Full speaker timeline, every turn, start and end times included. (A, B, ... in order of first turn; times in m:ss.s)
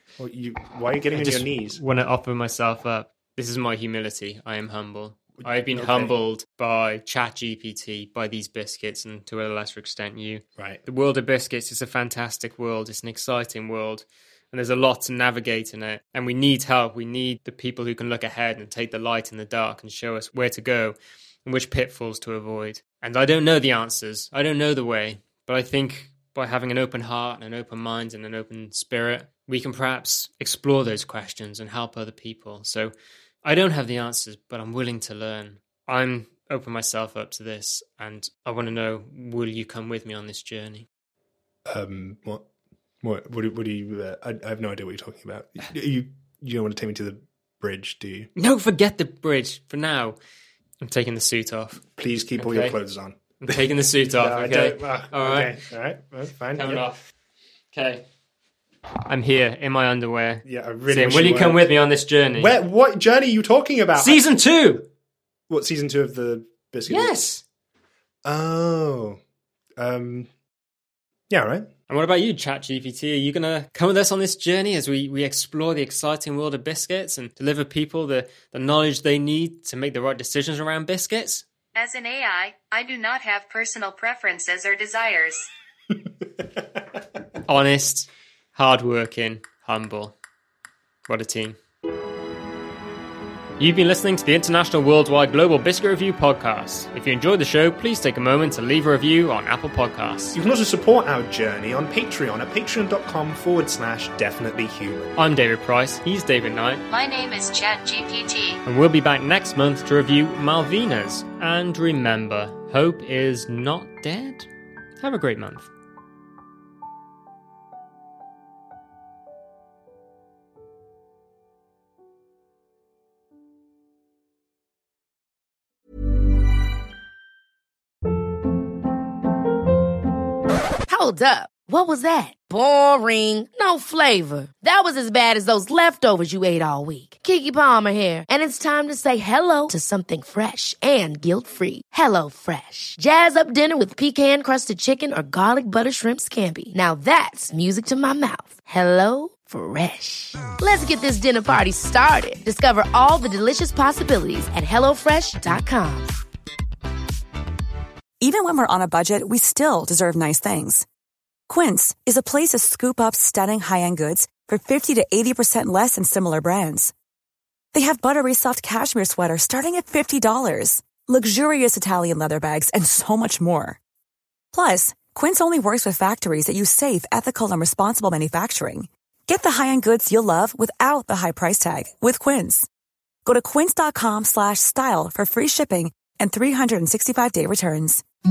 0:00.2-0:01.8 A
0:01.1-0:32.9 B
0:05.4-0:06.2 A
0:33.4-0:40.9 B
0:41.6-0:42.4 A
0:43.0-0:48.3 A
0:48.4-0:50.2 B
0:50.8-0:51.8 B
0:52.0-0:56.8 A
0:52.4-0:52.8 B
0:53.4-0:55.6 B
0:56.6-0:57.1 B
0:57.7-0:58.0 B
0:59.1-1:02.6 B
1:00.4-1:01.7 A
1:02.4-1:04.8 A
1:04.0-1:04.8 B
1:05.5-1:07.2 A
1:06.9-1:07.4 B
1:08.2-1:09.2 A
1:09.8-1:10.3 A
1:11.3-1:11.7 A
1:11.9-1:21.4 B
1:21.8-1:25.5 C
1:27.5-1:30.2 B
1:31.1-1:31.6 B
1:33.6-1:40.4 B
1:40.3-1:45.2 A
1:45.2-1:46.8 B
1:46.9-1:48.6 C
1:48.6-1:54.5 B
1:55.0-1:55.7 B
2:10.9-2:36.1 D
2:38.2-2:40.8 E
2:41.5-2:46.9 E
2:47.7-2:53.8 E
2:54.5-3:02.7 E
3:03.2-3:08.0 E